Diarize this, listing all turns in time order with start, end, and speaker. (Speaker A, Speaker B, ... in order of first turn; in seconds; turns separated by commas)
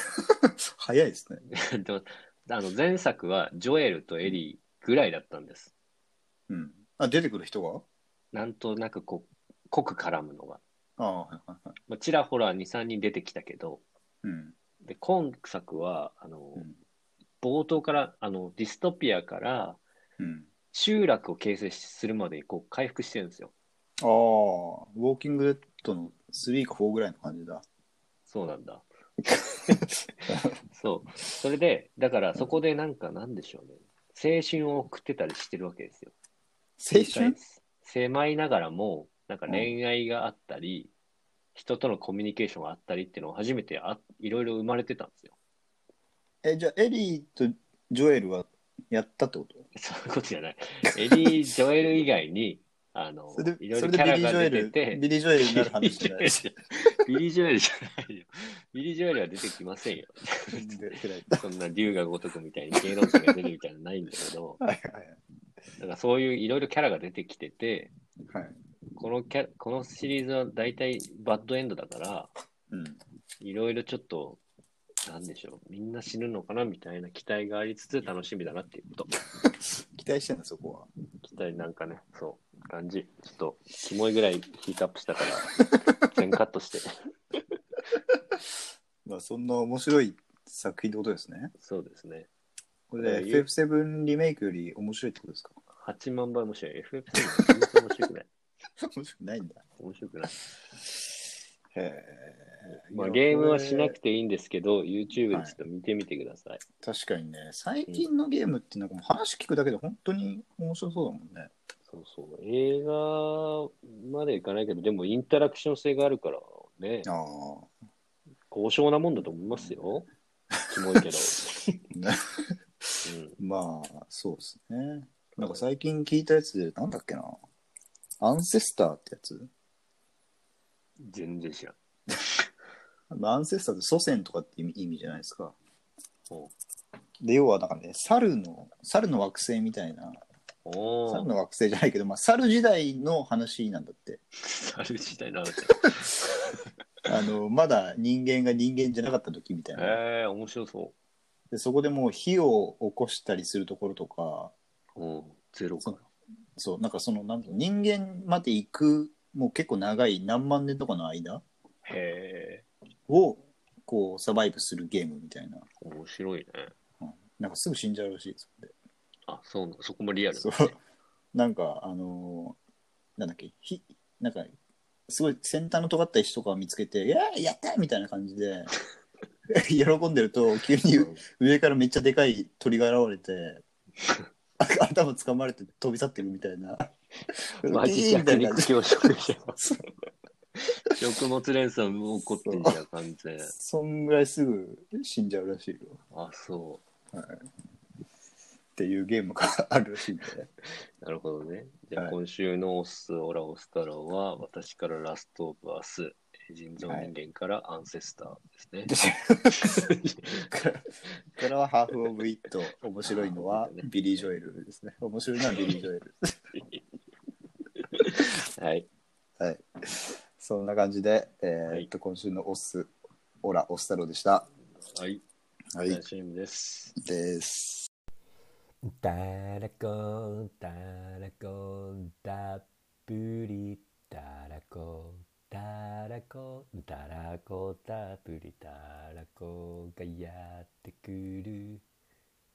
Speaker A: 0.1-1.4, Speaker B: 1.5-5.7, Speaker A: 6.5-7.8, Speaker B: 8.3-10.6, Speaker A: 11.0-11.7, Speaker B: 11.9-13.8, Speaker A: 14.2-14.5, Speaker B: 14.8-16.7, Speaker B: 17.4-19.8, Speaker A: 20.2-20.5, Speaker B: 20.7-23.5, Speaker A: 24.0-27.6, Speaker B: 28.3-28.9, Speaker A: 29.7-30.5, Speaker B: 30.6-36.1, Speaker A: 36.8-37.4, Speaker B: 36.9-40.9, Speaker A: 39.5-39.8, Speaker B: 41.5-45.4, Speaker A: 46.4-49.7, Speaker B: 49.8-60.5, Speaker A: 53.4-56.5, Speaker A: 60.5-61.4, Speaker B: 61.3-64.6, Speaker A: 64.6-65.2, Speaker B: 65.8-67.9, Speaker A: 68.3-68.6, Speaker B: 69.0-72.3, Speaker A: 72.7-73.0, Speaker B: 73.4-74.4, Speaker B: 75.1-79.1, Speaker A: 79.6-80.9, Speaker B: 81.2-86.9, Speaker A: 89.0-91.5, Speaker B: 91.6-92.3, Speaker A: 92.9-95.6, Speaker B: 93.0-93.5, Speaker B: 95.8-98.3, Speaker A: 98.8-99.6, Speaker B: 99.8-100.6, Speaker A: 101.7-104.0, Speaker B: 102.7-106.6, Speaker A: 106.8-111.5, Speaker B: 111.9-117.1, Speaker A: 117.1-117.7, Speaker B: 118.5-120.1, Speaker B: 120.7-121.8, Speaker A: 121.9-122.2, Speaker A: 122.8-127.4, Speaker B: 123.0-123.4, Speaker B: 125.4-125.6, Speaker A: 128.2-129.5, Speaker B: 131.0-131.8, Speaker A: 133.1-135.6, Speaker A: 137.2-140.2, Speaker B: 140.7-141.3, Speaker A: 141.1-144.2, Speaker B: 144.4-146.6, Speaker A: 147.1-150.0, Speaker B: 149.8-150.9, Speaker A: 151.5-154.5, Speaker B: 155.0-156.1, Speaker A: 156.6-161.4, Speaker B: 161.8-162.7, Speaker A: 163.1-165.7, Speaker B: 165.8-166.7, Speaker A: 167.0-168.7, Speaker B: 169.3-170.8, Speaker A: 170.3-170.8, Speaker A: 171.3-172.6, Speaker A: 173.2-174.5, Speaker A: 175.1-178.7, Speaker A: 179.5-183.6, Speaker B: 181.0-181.2, Speaker A: 184.6-186.9, Speaker A: 187.6-188.7, Speaker B: 187.7-189.6, Speaker A: 189.6-189.8, Speaker B: 190.9-193.5, Speaker A: 192.5-192.7, Speaker A: 193.4-196.0, Speaker B: 196.1-196.8, Speaker A: 197.1-197.4, Speaker A: 198.8-200.5, Speaker B: 201.0-208.9, Speaker A: 206.8-207.1, Speaker A: 208.9-209.8, Speaker B: 209.6-210.4, Speaker A: 210.5-210.9, Speaker A: 211.4-216.3, Speaker B: 213.0-213.9, Speaker B: 215.4-215.8, Speaker B: 217.8-218.9, Speaker A: 219.4-222.9, Speaker A: 223.4-224.5, Speaker B: 224.9-225.2, Speaker A: 225.8-226.0, Speaker B: 225.9-226.9, Speaker A: 227.0-227.9, Speaker C: 228.9-241.8